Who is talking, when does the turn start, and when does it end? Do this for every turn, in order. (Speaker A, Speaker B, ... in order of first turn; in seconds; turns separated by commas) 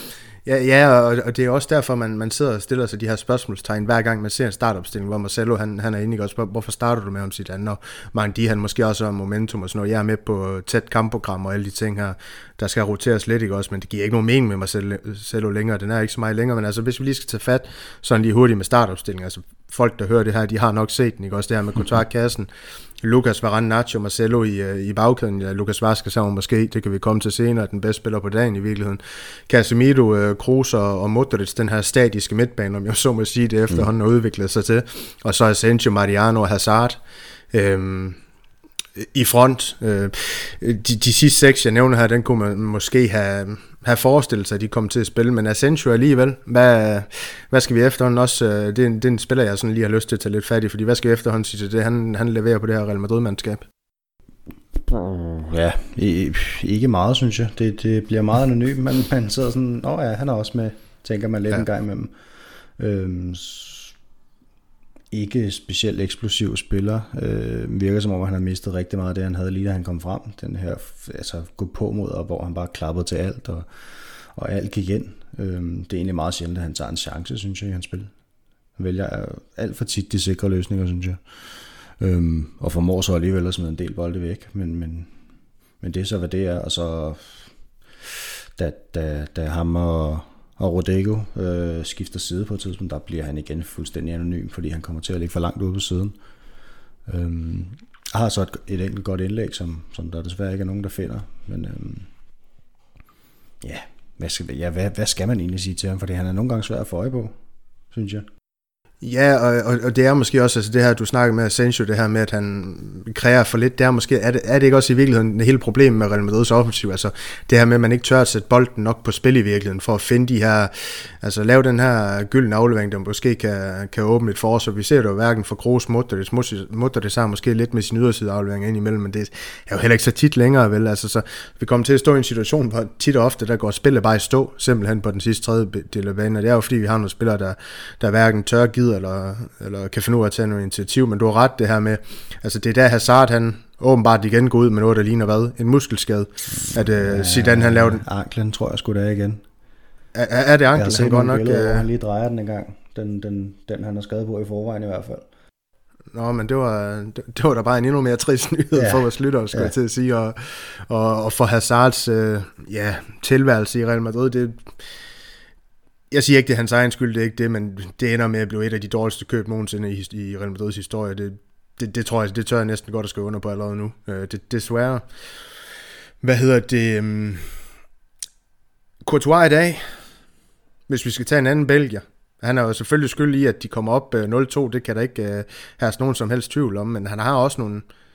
Speaker A: 0.5-22.5, Speaker A: 23.0-37.0, Speaker A: 37.5-38.2, Speaker A: 39.0-53.6, Speaker B: 54.8-62.1, Speaker B: 62.8-63.9, Speaker B: 65.1-78.1, Speaker B: 78.8-85.1, Speaker B: 85.8-87.5, Speaker B: 88.0-96.2, Speaker B: 97.1-102.1, Speaker B: 103.6-107.3, Speaker B: 107.9-108.3, Speaker A: 109.0-148.0, Speaker B: 146.7-149.4, Speaker A: 150.1-151.8, Speaker B: 150.8-155.3, Speaker A: 156.1-164.7, Speaker B: 158.8-159.7, Speaker A: 166.1-175.0, Speaker A: 176.2-177.5, Speaker A: 179.1-179.8, Speaker A: 180.9-187.8